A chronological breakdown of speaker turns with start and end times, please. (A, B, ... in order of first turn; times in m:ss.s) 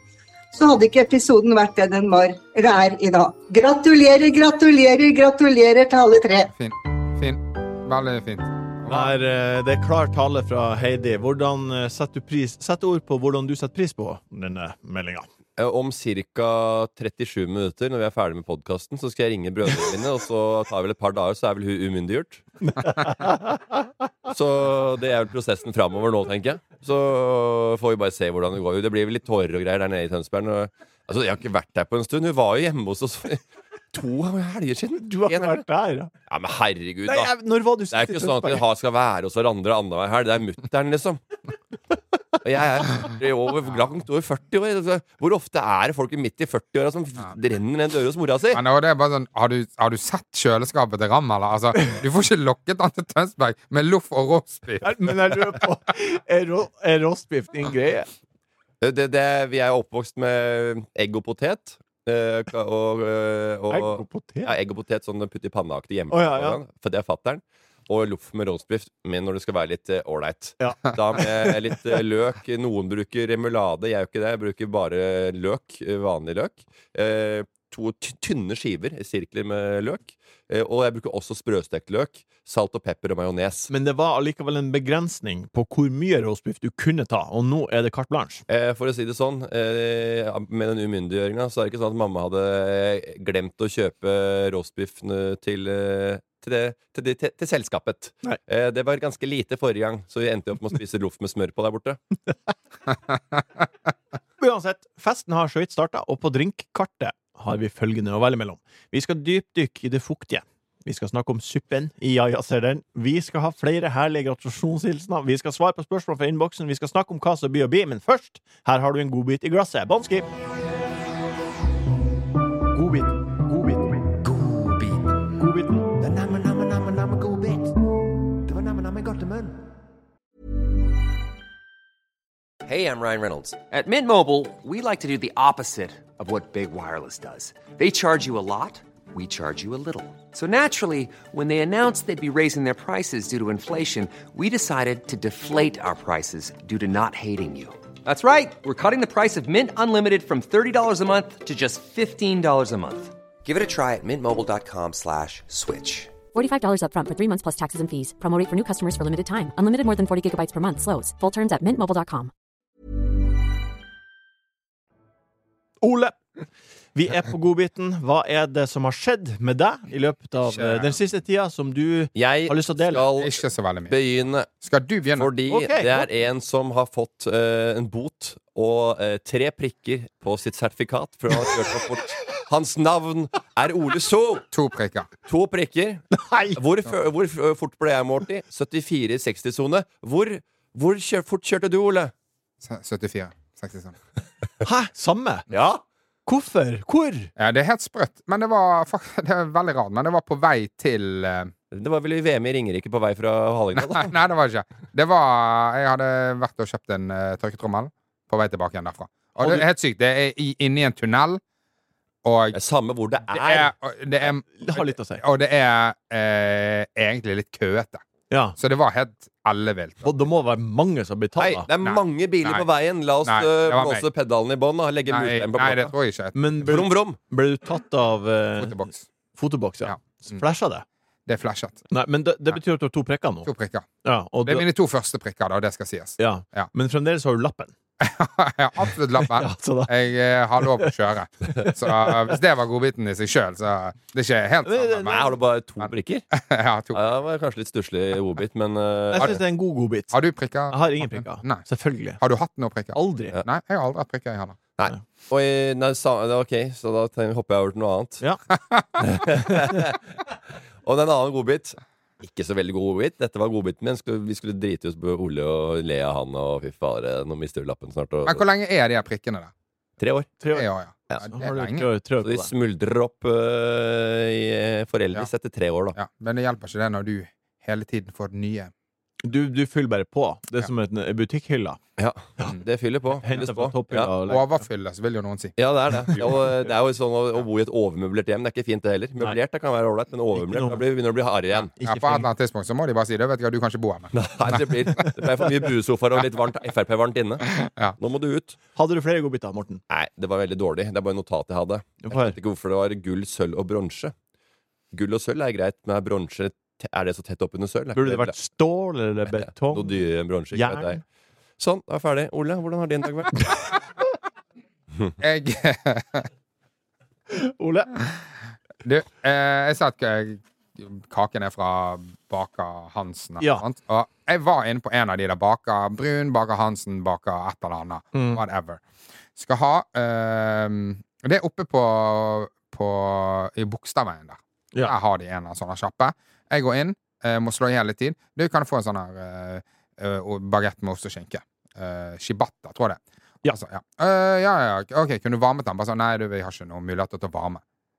0:00.5-0:06.5 A
0:06.5-0:09.2 B
0:08.9-0:15.3 C
0:15.6-0:22.4 D
0:22.7-0:23.6 C
0:24.3-0:33.4 D
0:33.9-0:35.6 D
0:35.0-0:36.1 C
0:36.3-0:37.3 D
0:37.1-0:38.6 C
0:37.9-0:41.2 D
0:42.4-0:48.6 D
0:48.5-0:55.5 B
0:54.8-0:58.1 C
0:58.8-1:23.7 D
1:03.7-1:04.5 C
1:06.1-1:06.6 C
1:10.6-1:11.5 C
1:23.7-1:28.4 C
1:28.5-1:42.0 D
1:44.4-2:00.3 C
2:02.7-2:04.0 C
2:04.2-2:05.3 E
2:05.4-2:05.9 C
2:06.0-2:07.7 E
2:08.4-2:09.7 E
2:12.6-2:36.1 E
2:36.3-2:42.3 F
2:45.8-2:46.2 C
2:47.0-2:53.0 C
2:50.5-2:51.0 B
2:52.2-2:54.5 D
2:53.2-2:54.0 B
2:54.6-2:55.3 B
2:55.2-3:04.5 D
2:55.5-2:56.1 C
3:04.5-3:05.1 B
3:05.3-3:06.0 D
3:06.1-3:06.6 C
3:06.6-3:12.1 D
3:12.6-3:14.0 B
3:14.6-3:15.5 C
3:15.5-3:15.8 D
3:16.3-3:17.3 C
3:17.4-3:21.5 B
3:21.7-3:24.2 D
3:23.8-3:31.4 B
3:32.2-3:32.6 B
3:32.5-3:33.7 D
3:33.3-3:38.0 B
3:34.6-3:35.2 C
3:38.3-3:38.6 C
3:38.6-3:40.1 B
3:40.0-3:41.7 C
3:41.4-3:45.9 D
3:41.8-3:42.7 B
3:43.2-3:44.0 B
3:45.1-3:46.4 B
3:46.4-3:48.8 C
3:46.6-3:47.2 D
3:48.6-3:49.0 B
3:49.4-3:50.8 C
3:49.8-3:50.4 B
3:51.3-3:51.8 B
3:51.9-3:53.5 C
3:53.4-3:53.9 B
3:54.0-3:54.7 C
3:54.4-3:56.7 B
3:56.2-3:57.7 C
3:58.0-4:05.3 B
3:59.2-3:59.9 C
4:00.6-4:00.9 C
4:01.5-4:02.3 C
4:04.6-4:05.2 C
4:05.1-4:06.2 D
4:05.8-4:07.0 B
4:06.9-4:09.4 D
4:09.1-4:10.2 C
4:10.1-4:11.6 B
4:10.7-4:12.2 C
4:12.2-4:14.6 B
4:12.9-4:13.3 C
4:14.8-4:18.2 D
4:18.7-4:19.0 B
4:19.0-4:20.0 D
4:20.8-4:28.4 D
4:28.3-4:29.5 B
4:30.0-4:30.3 D
4:30.4-4:30.7 C
4:30.5-4:31.9 B
4:31.2-4:32.5 C
4:32.2-4:36.0 D
4:36.0-4:38.7 B
4:39.2-4:41.8 C
4:42.0-4:44.1 D
4:43.2-4:44.6 C
4:44.3-4:45.6 B
4:45.6-4:51.7 D
4:50.4-4:50.8 C
4:51.8-4:52.3 C
4:51.8-4:54.6 B
4:54.1-4:58.6 D
4:57.5-4:58.0 B
4:58.8-4:59.8 C
4:59.9-5:04.1 D
5:02.0-5:02.4 C
5:04.9-5:08.3 D
5:08.0-5:10.0 C
5:09.7-5:11.0 D
5:10.5-5:11.0 C
5:11.6-5:13.5 D
5:15.2-5:16.3 B
5:17.3-5:17.9 C
5:18.8-5:28.8 B
5:23.4-5:23.6 C
5:28.1-5:28.4 C
5:29.4-5:47.6 B